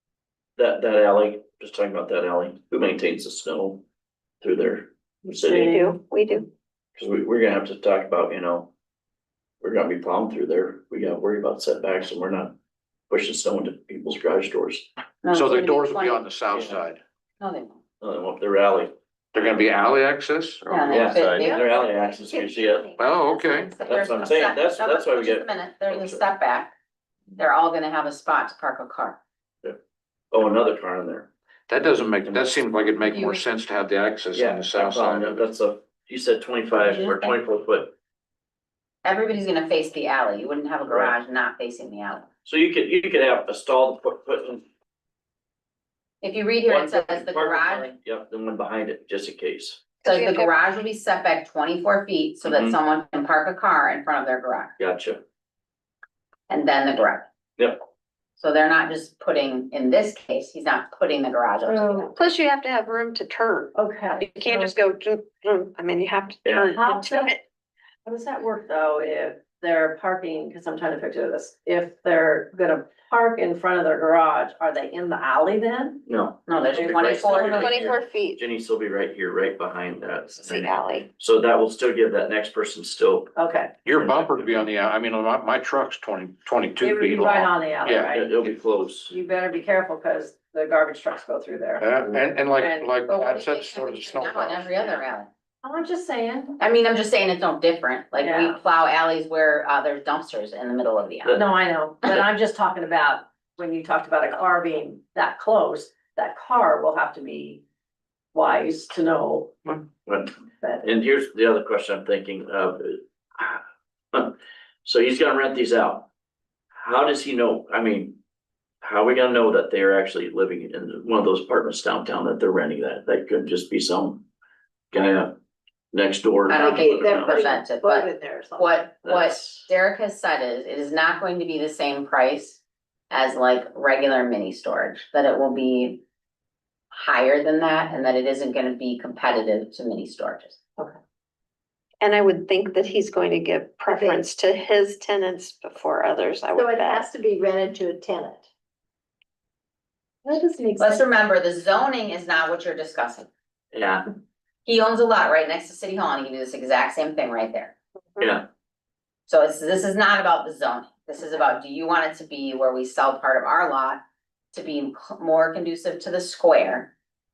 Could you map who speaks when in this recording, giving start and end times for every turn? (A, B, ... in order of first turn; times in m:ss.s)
0:00.6-0:03.8 A
0:04.4-0:05.9 A
0:05.5-0:06.5 B
0:07.0-0:08.7 A
0:09.6-0:12.6 A
0:13.1-0:14.9 A
0:15.2-0:16.2 C
0:15.3-0:17.0 D
0:16.5-0:16.8 A
0:17.4-0:17.8 C
0:18.0-0:18.9 A
0:19.3-0:21.4 D
0:20.7-0:21.7 C
0:20.8-0:22.9 A
0:21.4-0:23.2 E
0:23.0-0:23.8 D
0:23.2-0:26.7 C
0:23.8-0:26.2 A
0:27.4-0:29.2 C
0:30.3-0:31.3 A
0:31.7-0:35.4 D
0:32.2-0:32.5 A
0:33.0-0:33.4 C
0:34.3-0:37.9 A
0:36.8-0:37.4 C
0:39.0-0:42.3 C
0:40.9-0:41.2 A
0:42.4-0:44.7 A
0:46.2-0:47.9 C
0:46.7-0:49.8 A
0:50.0-0:50.5 B
0:50.0-0:54.8 C
0:52.4-0:52.8 A
0:54.8-0:55.2 A
0:56.5-0:57.2 C
0:58.4-1:02.1 C
1:01.7-1:02.1 F
1:02.0-1:07.4 B
1:03.8-1:04.7 F
1:06.4-1:06.7 A
1:06.7-1:07.4 F
1:08.0-1:18.0 F
1:16.1-1:23.3 A
1:16.5-1:17.6 C
1:17.5-1:18.4 B
1:20.4-1:21.1 B
1:23.4-1:23.7 F
1:23.8-1:28.1 D
1:23.9-1:24.7 A
1:26.8-1:28.4 F
1:28.1-1:29.1 A
1:29.1-1:32.9 F
1:31.8-1:35.0 D
1:33.1-1:35.3 C
1:35.6-1:36.6 F
1:36.6-1:41.4 C
1:38.2-1:38.6 F
1:41.3-1:47.6 F
1:48.3-1:49.8 F
1:50.1-1:53.6 A
1:54.1-1:56.1 A
1:56.7-1:58.2 A
1:58.8-2:04.2 A
2:04.9-2:05.4 A
2:05.9-2:07.5 A
2:06.5-2:16.0 C
2:06.5-2:08.9 E
2:09.0-2:09.7 A
2:16.9-2:20.6 C
2:22.0-2:27.1 B
2:23.9-2:24.2 E
2:26.5-2:28.5 E
2:30.2-2:31.0 F
2:30.8-2:33.3 C
2:33.7-2:34.1 A
2:34.6-2:37.8 C
2:38.2-2:38.5 A
2:39.3-2:44.0 C
2:44.5-2:46.9 C